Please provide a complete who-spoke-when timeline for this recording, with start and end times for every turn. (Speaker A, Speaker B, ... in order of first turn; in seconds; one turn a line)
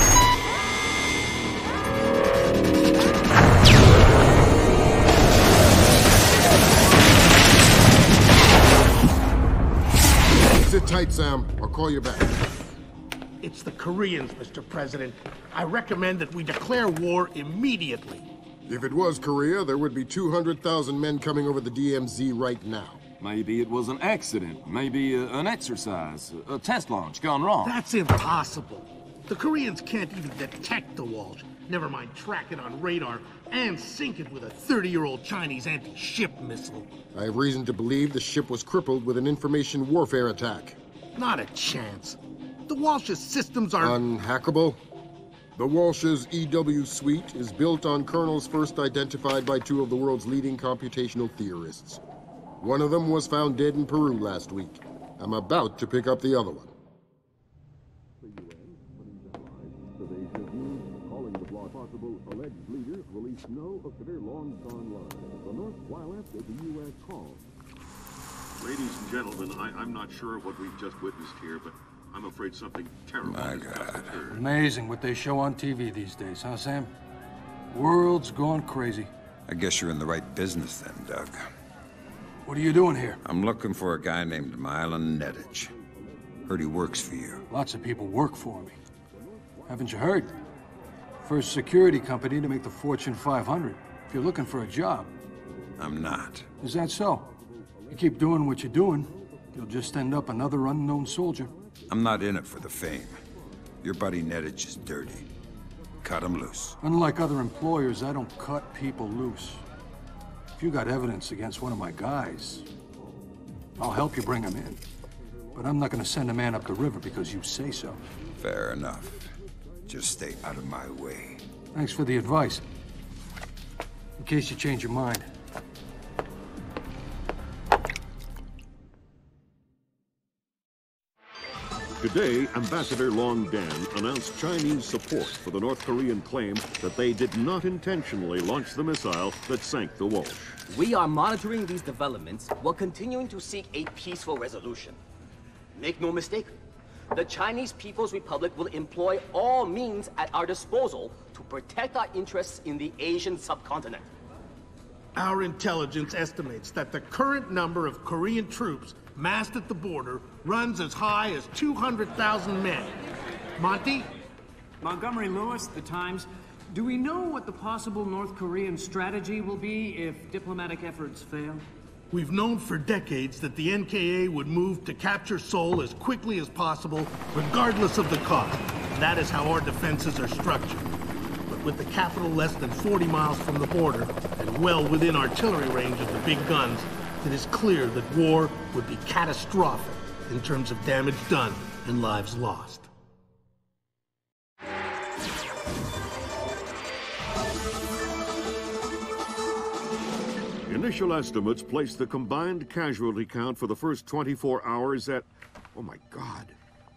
Speaker A: 10.4-12.4
Speaker B: 13.4-18.3
Speaker A: 18.7-23.0
Speaker C: 23.2-27.7
Speaker B: 27.6-36.9
Speaker A: 37.1-40.8
Speaker B: 41.1-44.0
Speaker A: 43.8-44.8
Speaker A: 45.5-52.0
Speaker A: 52.6-56.7
Speaker D: 58.2-67.4
Speaker D: 68.6-74.4
Speaker E: 73.2-74.1
Speaker F: 74.3-76.9
Speaker F: 77.7-79.1
Speaker E: 79.5-81.4
Speaker F: 82.4-83.2
Speaker E: 83.2-85.7
Speaker E: 86.5-87.4
Speaker F: 87.5-88.8
Speaker F: 89.7-90.4
Speaker F: 91.2-95.1
Speaker E: 95.8-96.5
Speaker F: 96.6-97.3
Speaker F: 97.9-101.5
Speaker E: 101.9-103.2
Speaker E: 103.8-105.3
Speaker E: 106.0-106.8
Speaker F: 106.8-109.6
Speaker F: 110.6-112.7
Speaker F: 113.8-114.8
Speaker F: 115.5-118.0
Speaker E: 118.4-119.3
Speaker E: 119.9-121.4
Speaker F: 121.7-122.6
Speaker F: 124.2-125.3
Speaker D: 132.0-140.6
Speaker G: 140.7-145.0
Speaker G: 145.7-146.5
Speaker G: 147.1-154.1
Speaker B: 155.1-162.9
Speaker B: 163.6-164.1
Speaker H: 164.8-171.6
Speaker B: 172.1-180.8
Speaker B: 181.5-192.9
Speaker D: 200.7-206.6